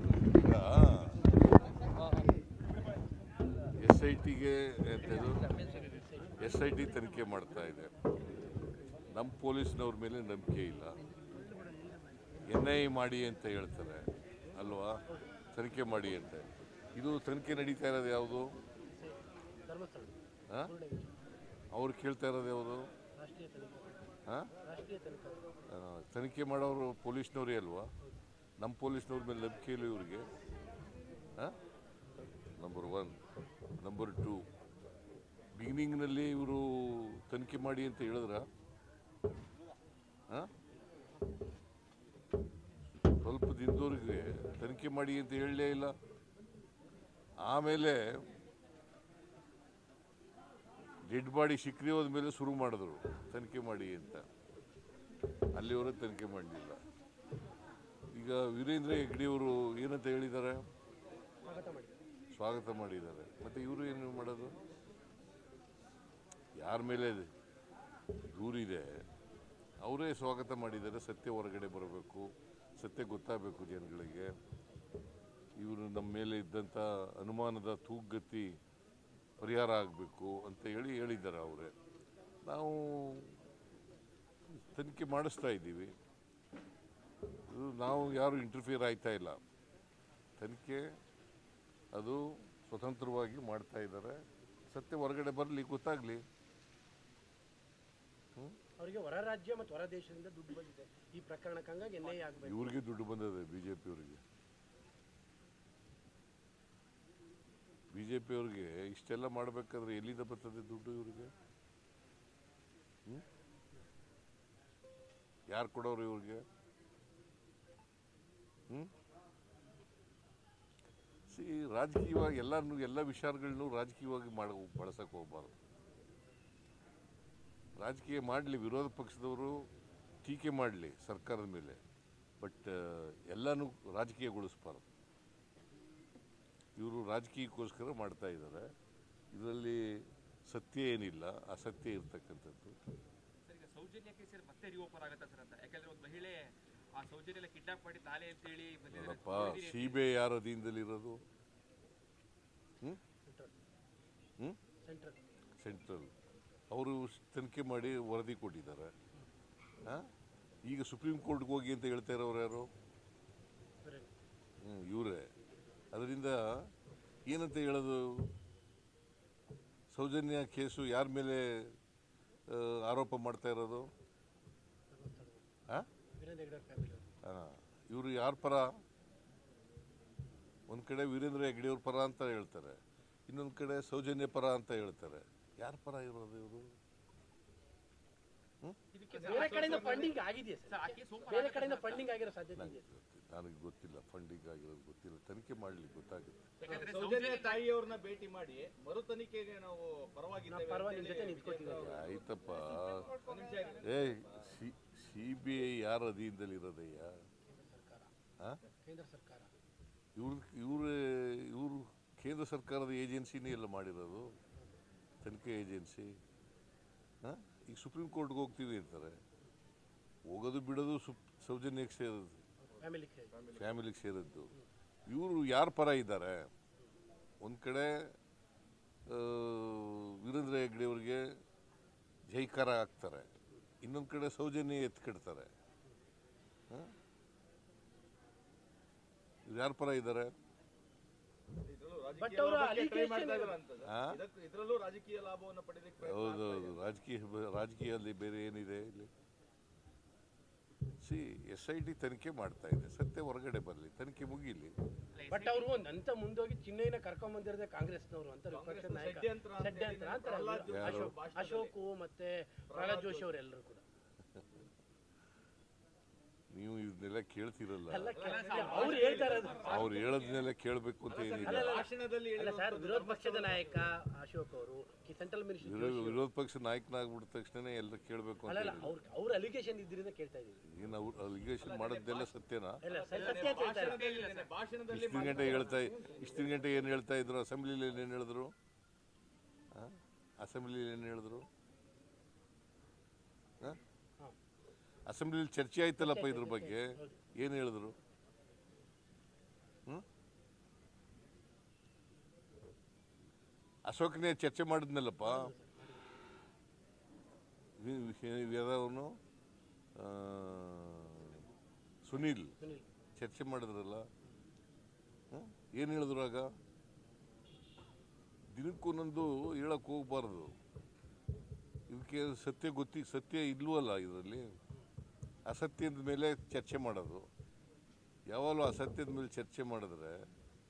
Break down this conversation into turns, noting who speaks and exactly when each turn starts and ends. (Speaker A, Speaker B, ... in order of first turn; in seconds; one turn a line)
Speaker A: 0.3-1.3
Speaker A: 3.8-5.6
Speaker B: 5.8-6.4
Speaker A: 6.4-7.9
Speaker A: 9.1-11.0
Speaker A: 12.5-15.0
Speaker A: 15.5-18.5
Speaker B: 18.9-21.2
Speaker A: 21.7-22.9
Speaker B: 23.2-24.1
Speaker B: 24.6-25.5
Speaker A: 25.7-27.9
Speaker A: 28.6-30.3
Speaker A: 32.6-33.2
Speaker A: 33.8-34.5
Speaker A: 35.5-38.5
Speaker A: 43.2-46.0
Speaker A: 47.4-48.3
Speaker A: 51.1-54.3
Speaker A: 55.5-56.8
Speaker A: 58.1-60.7
Speaker B: 61.5-62.0
Speaker A: 62.3-64.6
Speaker A: 66.6-67.3
Speaker A: 68.3-69.1
Speaker A: 69.8-74.3
Speaker A: 75.6-78.6
Speaker A: 79.4-81.7
Speaker A: 82.4-83.4
Speaker A: 84.5-85.9
Speaker A: 87.5-89.4
Speaker A: 90.4-90.9
Speaker A: 91.9-94.2
Speaker A: 94.7-96.2
Speaker B: 98.8-102.8
Speaker A: 102.4-104.2
Speaker A: 107.9-111.3
Speaker A: 115.5-116.5
Speaker A: 121.3-125.6
Speaker A: 127.8-129.7
Speaker A: 130.2-131.8
Speaker A: 132.4-134.9
Speaker A: 136.8-138.7
Speaker A: 139.3-142.8
Speaker C: 143.5-150.0
Speaker A: 148.9-151.2
Speaker B: 153.2-153.5
Speaker B: 154.8-155.2
Speaker A: 155.6-156.1
Speaker A: 156.7-158.9
Speaker A: 160.7-162.7
Speaker B: 163.8-164.1
Speaker A: 164.6-165.3
Speaker A: 165.9-166.7
Speaker A: 167.3-168.3
Speaker A: 169.9-171.8
Speaker A: 172.5-173.9
Speaker B: 174.9-175.4
Speaker B: 176.1-177.1
Speaker A: 177.2-178.7
Speaker A: 180.7-186.8
Speaker C: 188.9-190.1
Speaker D: 189.1-190.2
Speaker B: 189.1-192.9
Speaker C: 190.7-192.1
Speaker A: 192.6-196.5
Speaker D: 196.6-202.5
Speaker C: 196.6-197.7
Speaker B: 200.5-202.0
Speaker A: 201.8-203.1
Speaker C: 202.6-203.8
Speaker D: 203.0-204.3
Speaker A: 203.8-207.2
Speaker B: 207.4-208.1
Speaker B: 208.8-209.5
Speaker A: 210.2-214.3
Speaker A: 215.2-216.2
Speaker A: 217.2-219.2
Speaker A: 220.3-222.4
Speaker B: 222.6-223.3
Speaker D: 223.3-223.8
Speaker A: 223.5-224.5
Speaker A: 225.1-226.5
Speaker A: 227.4-228.2
Speaker A: 229.1-231.4
Speaker A: 232.3-233.3
Speaker A: 233.8-235.5
Speaker A: 239.5-240.3
Speaker D: 241.6-246.9
Speaker B: 242.2-243.6
Speaker A: 243.9-244.2
Speaker A: 246.0-249.1
Speaker A: 251.0-254.8
Speaker C: 255.1-255.7
Speaker B: 255.3-263.8
Speaker D: 258.5-261.7
Speaker A: 260.7-261.1
Speaker D: 262.7-263.3
Speaker A: 266.5-268.2
Speaker B: 267.9-270.0
Speaker D: 268.1-270.2
Speaker C: 268.2-270.1
Speaker A: 269.6-271.8
Speaker D: 271.1-273.9
Speaker B: 271.4-276.2
Speaker A: 275.6-279.0
Speaker B: 278.5-280.6
Speaker A: 280.6-282.8
Speaker D: 281.6-286.9
Speaker B: 282.8-284.0
Speaker C: 283.1-284.5
Speaker A: 284.9-288.5
Speaker A: 289.7-291.5
Speaker A: 295.1-298.0
Speaker B: 296.0-297.2
Speaker A: 303.9-305.5
Speaker B: 305.2-306.1
Speaker A: 307.8-309.2
Speaker A: 310.0-311.4
Speaker A: 312.1-312.6
Speaker B: 312.6-312.9
Speaker A: 313.2-314.1
Speaker A: 315.3-316.5
Speaker A: 318.5-320.6
Speaker A: 321.9-324.5
Speaker A: 325.5-327.3
Speaker A: 328.3-330.3